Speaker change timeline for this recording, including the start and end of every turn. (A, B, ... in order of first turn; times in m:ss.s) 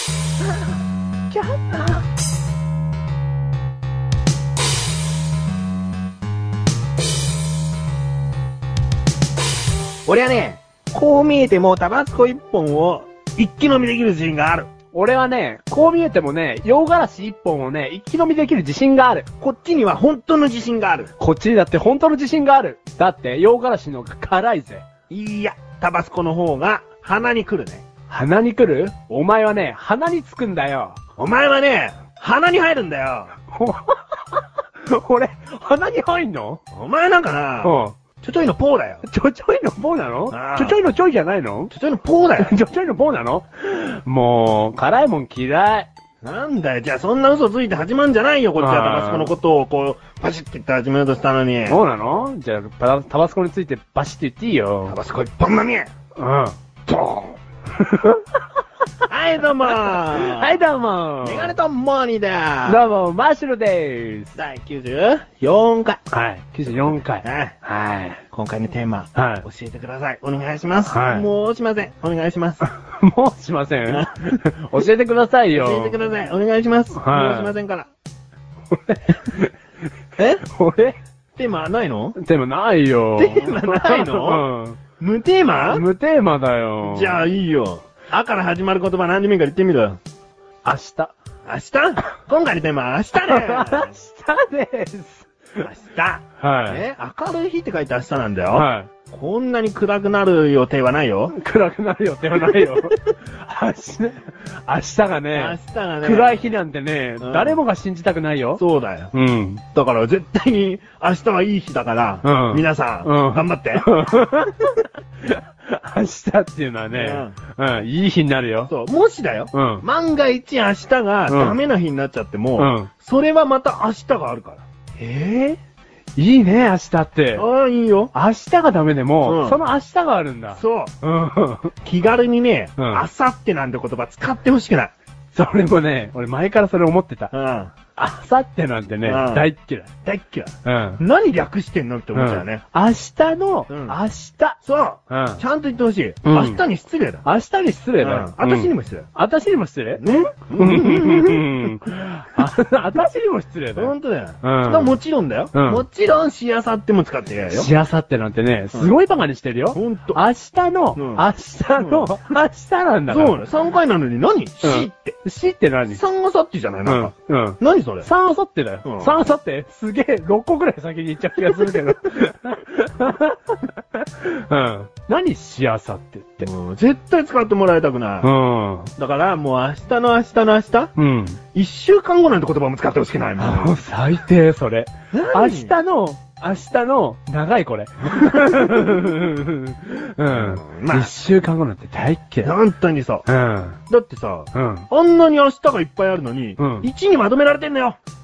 0:01.3-0:02.0 A
0:10.0-0:14.7 B
0:14.9-0:19.3 A
0:19.4-0:21.1 B
0:21.2-0:24.8 A
0:25.1-0:27.8 B
0:28.1-0:31.0 A
0:31.2-0:33.4 B
0:33.5-0:36.6 A
0:36.7-0:39.0 B
0:37.6-0:38.0 A
0:39.0-0:41.7 A
0:40.3-0:40.9 B
0:41.7-0:42.5 B
0:42.4-0:45.9 A
0:46.2-0:51.8 B
0:48.6-0:49.3 A
0:51.7-0:55.0 A
0:54.9-0:55.9 B
0:56.2-0:58.2 A
0:59.1-1:00.6 B
0:59.7-1:01.6 A
1:01.2-1:02.8 B
1:02.6-1:04.4 A
1:04.4-1:06.0 B
1:06.1-1:08.2 A
1:07.1-1:07.6 B
1:08.3-1:12.6 B
1:09.1-1:09.4 A
1:10.9-1:11.3 A
1:12.8-1:16.0 A
1:13.9-1:14.4 B
1:15.5-1:17.9 B
1:16.9-1:17.6 A
1:18.7-1:19.5 A
1:20.2-1:20.4 B
1:20.4-1:21.0 A
1:21.4-1:22.2 B
1:22.2-1:24.8 A
1:23.2-1:24.4 B
1:25.0-1:25.8 B
1:25.7-1:27.2 A
1:26.8-1:30.0 B
1:30.6-1:31.1 A
1:31.4-1:33.9 B
1:33.1-1:35.7 A
1:35.6-1:41.3 B
1:36.4-1:36.8 A
1:38.5-1:38.9 A
1:41.3-1:48.6 A
1:45.3-1:46.5 B
1:47.2-1:47.6 B
1:48.6-1:49.1 B
1:49.1-1:49.6 A
1:49.7-1:53.9 B
1:52.2-1:58.7 A
1:56.9-1:57.4 B
1:58.7-2:04.6 B
1:59.5-1:59.8 A
2:01.3-2:01.6 A
2:02.6-2:02.9 A
2:05.0-2:05.6 A
2:06.2-2:07.4 A
2:07.3-2:08.1 B
2:08.1-2:11.7 A
2:09.2-2:09.6 B
2:10.5-2:10.9 B
2:11.8-2:14.9 B
2:12.8-2:13.0 A
2:15.3-2:17.3 A
2:17.3-2:17.7 B
2:18.0-2:19.9 A
2:19.0-2:19.5 B
2:20.0-2:22.6 B
2:20.6-2:21.0 A
2:22.1-2:24.6 A
2:23.7-2:24.0 B
2:24.6-2:27.2 B
2:25.1-2:25.4 A
2:26.2-2:26.6 A
2:27.2-2:35.0 A
2:28.0-2:29.1 B
2:30.0-2:31.7 B
2:33.8-2:37.7 B
2:35.5-2:35.8 A
2:37.5-2:43.4 A
2:39.7-2:40.2 B
2:40.9-2:41.2 B
2:41.8-2:42.1 B
2:43.1-2:45.2 B
2:44.6-2:46.0 A
2:45.9-2:48.1 B
2:46.8-2:56.5 A
2:48.8-2:49.2 B
2:56.4-2:58.3 B
2:58.2-2:58.9 A
2:59.0-3:00.9 B
3:01.0-3:01.4 A
3:01.5-3:03.8 B
3:03.4-3:12.5 A
3:05.1-3:05.8 B
3:08.4-3:08.9 B
3:10.3-3:11.1 B
3:12.4-3:13.2 B
3:13.2-3:13.8 A
3:13.9-3:18.0 B
3:14.5-3:14.9 A
3:16.6-3:16.9 A